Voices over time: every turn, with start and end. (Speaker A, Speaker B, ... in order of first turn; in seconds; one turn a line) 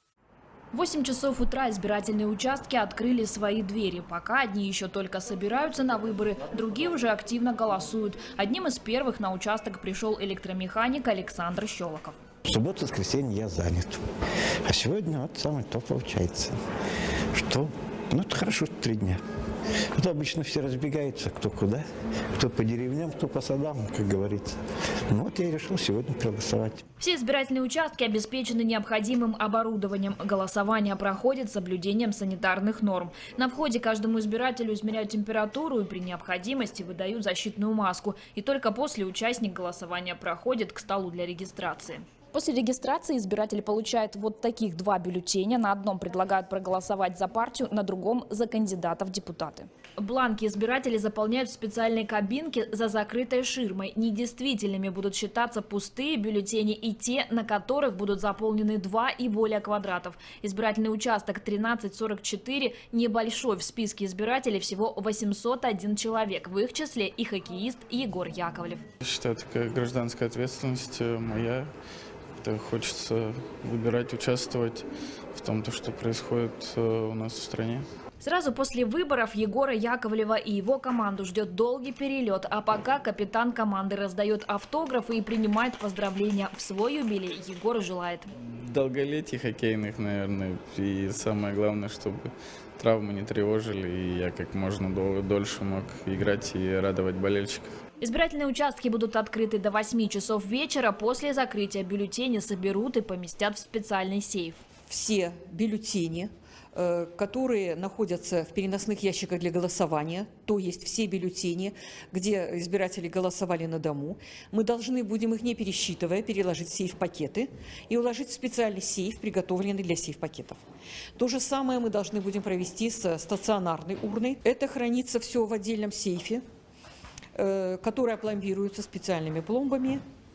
Speaker A: 0.7-12.2
Speaker B: 12.5-14.0
Speaker B: 14.7-16.6
Speaker B: 17.3-19.2
Speaker B: 19.9-21.8
Speaker B: 22.4-24.6
Speaker B: 25.1-26.8
Speaker A: 27.0-68.8
Speaker C: 69.0-71.7
Speaker C: 72.4-77.8
Speaker A: 78.2-88.3
Speaker C: 88.7-97.7
Speaker A: 98.0-104.6
Speaker D: 104.9-120.6
Speaker D: 121.2-126.4
Speaker D: 127.3-130.0